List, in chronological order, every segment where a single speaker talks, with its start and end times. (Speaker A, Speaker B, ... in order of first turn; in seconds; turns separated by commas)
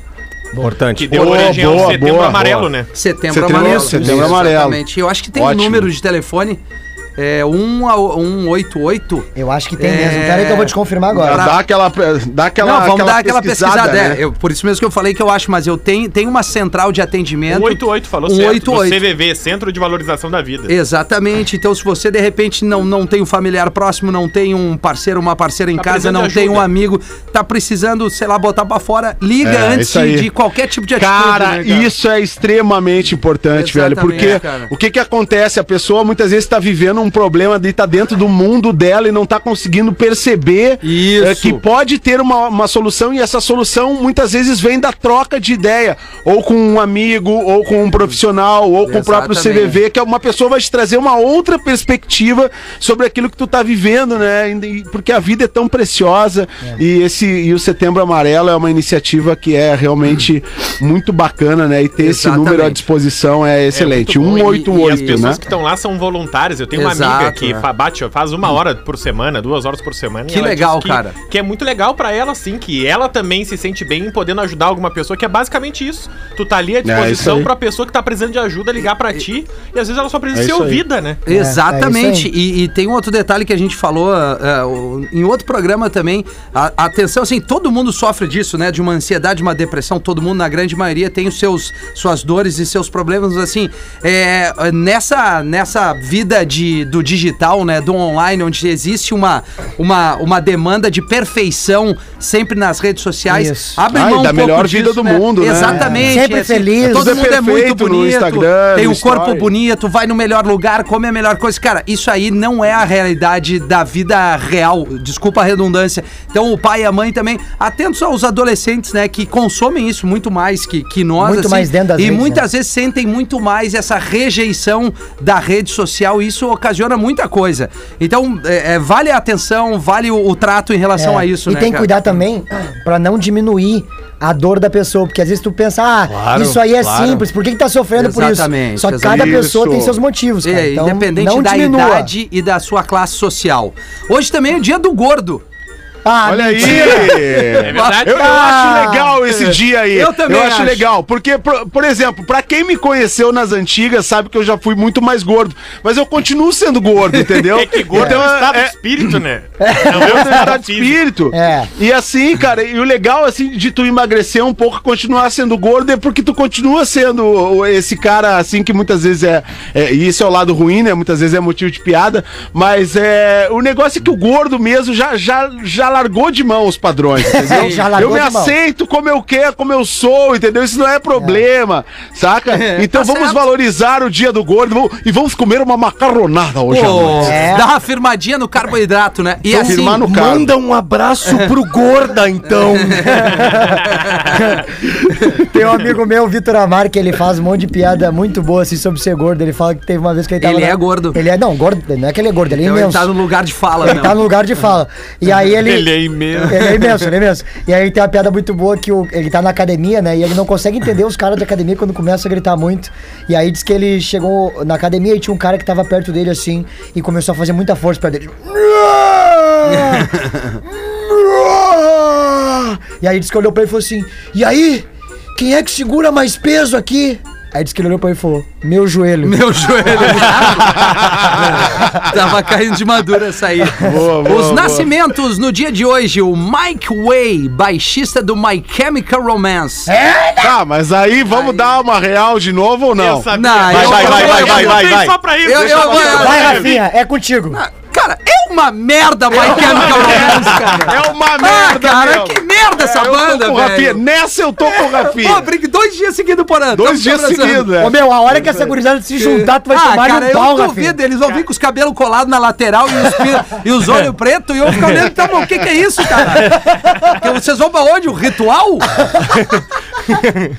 Speaker A: 0.5-1.9, Speaker B: 0.9-2.9, Speaker C: 1.1-2.7, Speaker D: 2.9-6.6, Speaker C: 3.3-4.8, Speaker A: 3.5-4.4, Speaker C: 5.3-5.9, Speaker D: 7.2-11.6, Speaker E: 9.3-11.5, Speaker C: 11.1-14.2, Speaker D: 12.6-19.0, Speaker B: 17.5-20.7, Speaker D: 20.7-31.9, Speaker B: 25.8-26.7, Speaker C: 29.4-30.3, Speaker C: 31.0-65.4, Speaker D: 33.5-34.7, Speaker D: 40.8-41.6, Speaker D: 48.8-49.8, Speaker D: 62.0-62.8, Speaker B: 63.7-81.2, Speaker D: 64.2-65.3, Speaker D: 66.7-67.6, Speaker D: 70.3-71.1, Speaker C: 76.8-77.5, Speaker C: 80.3-80.8, Speaker D: 81.2-131.9, Speaker E: 81.3-82.3, Speaker E: 103.3-103.8, Speaker C: 103.9-106.2, Speaker E: 105.6-107.3, Speaker C: 106.8-109.5, Speaker E: 121.2-122.4, Speaker E: 131.0-142.1, Speaker A: 136.1-137.2, Speaker D: 137.9-139.5, Speaker C: 139.0-140.0, Speaker D: 140.4-145.4, Speaker E: 146.0-149.3, Speaker C: 146.2-158.7, Speaker D: 146.6-147.1, Speaker B: 147.6-148.5, Speaker D: 147.7-148.2, Speaker D: 149.9-150.9, Speaker B: 157.5-161.0, Speaker E: 157.9-158.2, Speaker E: 159.6-160.5, Speaker C: 159.9-187.4, Speaker E: 161.3-161.7, Speaker E: 177.3-178.5, Speaker D: 177.4-177.9, Speaker E: 181.1-181.4, Speaker D: 182.5-183.4, Speaker D: 186.7-190.0, Speaker E: 187.2-187.7, Speaker C: 189.5-190.5, Speaker A: 189.7-193.5, Speaker D: 191.2-191.5, Speaker D: 192.6-194.4, Speaker E: 193.2-193.8, Speaker E: 194.4-194.6, Speaker E: 195.2-203.1, Speaker D: 200.4-201.2, Speaker D: 202.5-204.2, Speaker E: 203.8-230.4, Speaker B: 205.5-206.8, Speaker D: 219.7-220.6, Speaker D: 229.2-239.9, Speaker C: 230.7-231.8, Speaker C: 233.8-234.9, Speaker E: 239.9-240.6, Speaker C: 240.4-243.3, Speaker D: 241.3-241.7, Speaker B: 242.9-246.7, Speaker D: 243.3-246.7, Speaker A: 243.7-245.2, Speaker C: 243.9-244.4, Speaker C: 245.5-246.7, Speaker E: 245.9-247.6, Speaker D: 247.5-254.0, Speaker C: 249.3-255.5, Speaker D: 254.6-257.8, Speaker C: 256.7-257.9, Speaker E: 257.7-261.0, Speaker D: 259.2-269.0, Speaker A: 270.1-270.5